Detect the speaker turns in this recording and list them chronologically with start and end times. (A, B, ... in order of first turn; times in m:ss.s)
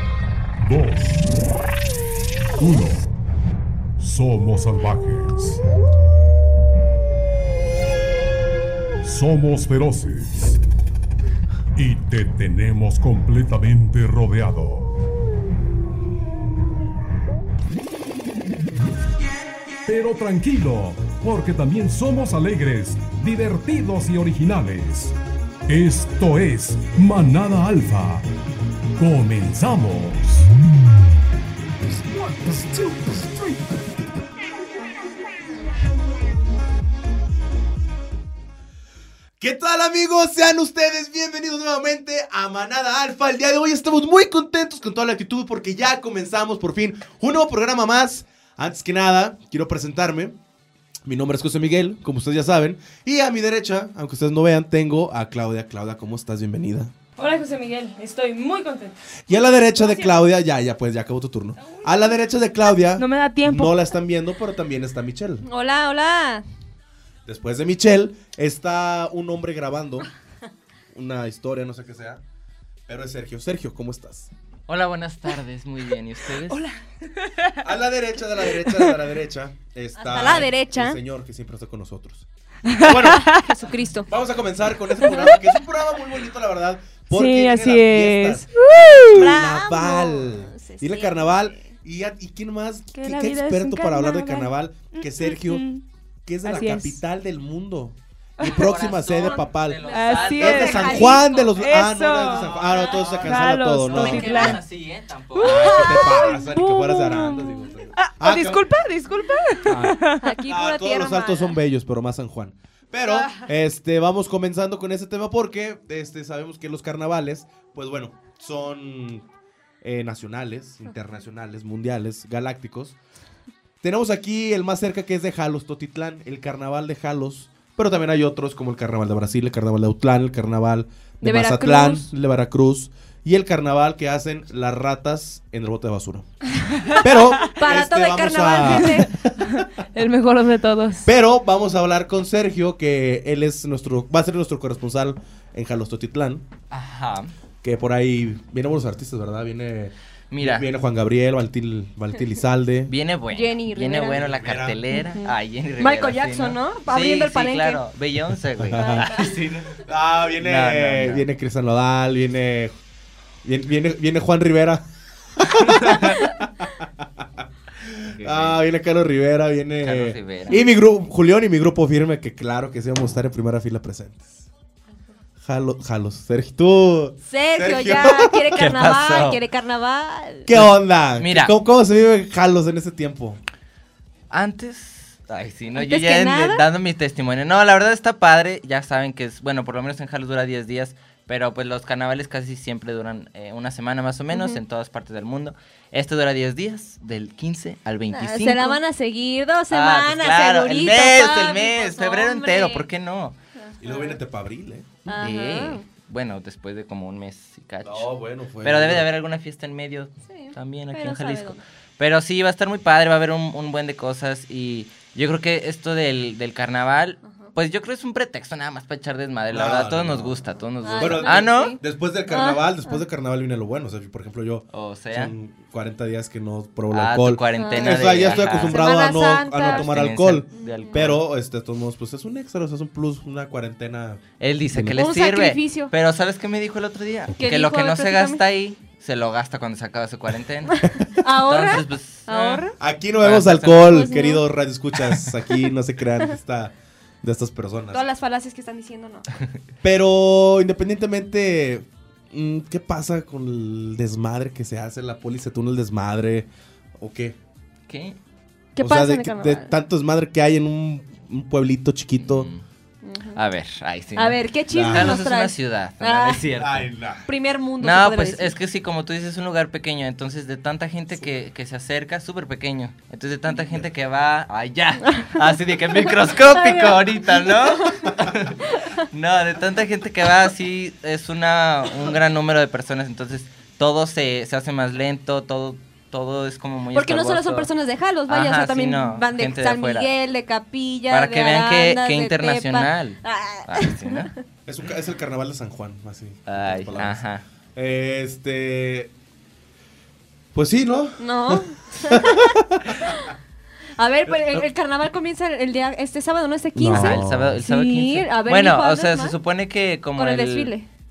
0:00.6-0:01.2 A
0:02.6-0:03.0 A
0:04.0-0:05.6 A
0:09.0-0:10.6 A
0:11.8-0:14.9 A
0:19.8-0:25.2 A
0:25.7-0:28.2 A
0:29.0-0:30.5 A
0:32.4-0:33.1 A
0:39.4-0:50.4 B
0:51.0-0:56.9 B
0:57.2-0:58.9 C
0:57.5-0:58.8 D
0:59.3-1:05.4 B
0:59.8-1:00.2 C
1:03.0-1:03.8 D
1:05.4-1:06.4 C
1:07.2-1:10.1 B
1:10.9-1:12.2 B
1:12.9-1:14.3 B
1:14.7-1:16.6 E
1:17.6-1:23.4 B
1:20.0-1:21.0 C
1:22.8-1:24.1 C
1:24.1-1:35.6 B
1:27.1-1:29.2 D
1:29.1-1:31.6 C
1:32.9-1:35.8 D
1:36.2-1:44.6 B
1:36.4-1:37.0 D
1:38.4-1:41.6 E
1:39.2-1:41.3 C
1:40.5-1:40.9 D
1:41.5-1:42.5 D
1:42.2-1:46.1 E
1:43.2-1:44.6 D
1:45.4-1:48.7 B
1:45.5-1:45.8 C
1:45.9-1:50.4 D
1:49.6-1:59.2 B
1:50.2-1:51.6 C
1:59.8-2:03.0 B
2:03.8-2:16.3 B
2:11.2-2:12.1 C
2:16.8-2:21.1 C
2:16.8-2:19.7 B
2:21.0-2:26.4 B
2:26.7-2:27.3 E
2:27.6-2:32.9 B
2:30.3-2:30.7 E
2:32.9-2:39.8 E
2:33.3-2:34.3 C
2:34.2-2:34.8 B
2:34.9-2:37.8 C
2:38.6-2:39.1 B
2:38.8-2:39.3 C
2:39.8-2:42.7 B
2:40.4-2:41.2 E
2:43.4-2:44.8 B
2:45.4-2:47.2 B
2:45.6-2:46.3 E
2:47.8-2:54.4 B
2:48.1-2:48.6 E
2:49.8-2:50.6 E
2:55.4-2:58.7 B
2:57.2-3:00.5 C
2:58.5-2:59.4 E
3:00.5-3:03.4 B
3:00.5-3:01.5 E
3:04.3-3:18.8 E
3:05.8-3:06.6 C
3:14.3-3:14.6 C
3:18.1-3:22.9 C
3:19.7-3:23.4 E
3:23.6-3:24.2 C
3:23.8-3:25.0 B
3:25.0-3:25.8 C
3:25.2-3:41.8 E
3:27.8-3:29.1 B
3:30.3-3:31.6 C
3:37.2-3:37.5 C
3:39.5-3:40.4 B
3:40.8-3:43.0 C
3:41.0-3:55.0 B
3:44.7-3:45.3 E
3:46.9-3:48.8 E
3:47.6-3:49.9 C
3:49.6-3:51.2 E
3:50.5-3:51.1 C
3:54.4-4:00.8 E
3:54.9-3:55.9 C
3:57.4-3:58.4 C
4:00.7-4:02.8 C
4:01.4-4:02.7 E
4:02.8-4:08.0 B
4:03.2-4:04.0 E
4:03.9-4:04.4 C
4:07.9-4:09.2 C
4:09.8-4:16.5 B
4:17.0-4:17.4 B
4:17.9-4:18.2 E
4:18.8-4:19.7 C
4:18.8-4:22.5 B
4:22.2-4:22.6 E
4:23.0-4:23.4 C
4:23.4-4:26.9 E
4:24.1-4:26.4 C
4:24.7-4:25.2 B
4:26.5-4:27.3 B
4:27.2-4:28.6 C
4:27.8-4:47.7 E
4:36.2-4:38.0 C
4:46.9-4:54.4 C
4:48.3-4:50.1 E
4:51.1-4:54.3 E
4:54.6-4:57.2 B
4:56.5-4:57.4 E
4:57.7-4:59.1 B
5:00.5-5:03.2 B
5:01.2-5:03.3 C
5:04.0-5:09.4 C
5:04.3-5:04.6 B
5:06.7-5:07.6 B
5:06.9-5:10.7 E
5:10.1-5:10.9 C